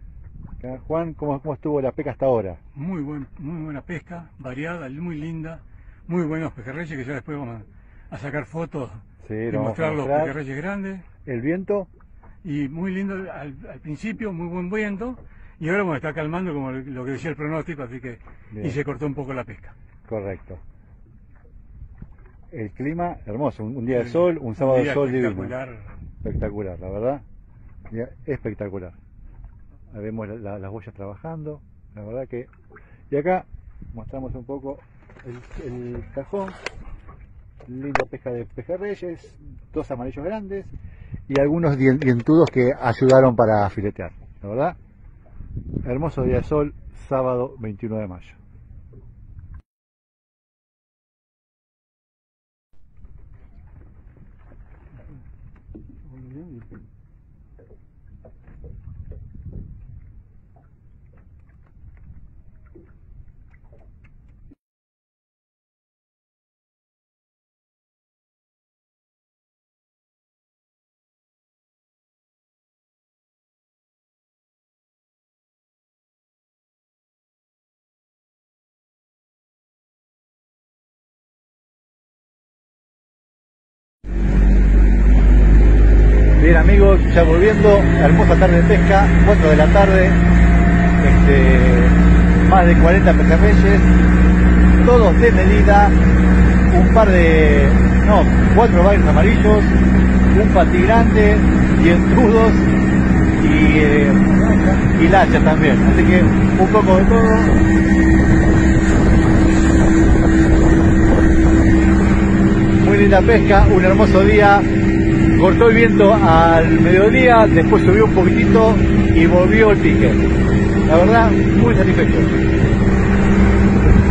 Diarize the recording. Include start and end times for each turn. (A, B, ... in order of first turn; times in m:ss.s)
0:00.6-0:02.6 A
0:02.8-0:11.1 B
0:09.2-0:10.4 A
0:11.2-0:11.9 A
0:12.4-0:19.7 B
0:18.5-0:18.8 A
0:20.1-0:20.6 A
0:22.5-0:25.6 A
0:23.9-0:25.9 B
0:26.2-0:27.2 A
0:27.9-0:29.0 A
0:29.9-0:32.5 A
0:33.1-0:36.6 A
0:37.7-0:40.8 A
0:41.3-0:44.8 A
0:45.8-0:48.4 A
0:56.0-0:56.8 B
1:26.4-1:30.2 A
1:31.0-1:33.9 A
1:34.8-1:36.0 A
1:36.7-1:39.8 A
1:40.3-1:42.7 A
1:43.4-1:47.6 A
1:52.8-1:54.7 A
1:55.4-2:00.2 A
2:00.9-2:02.4 A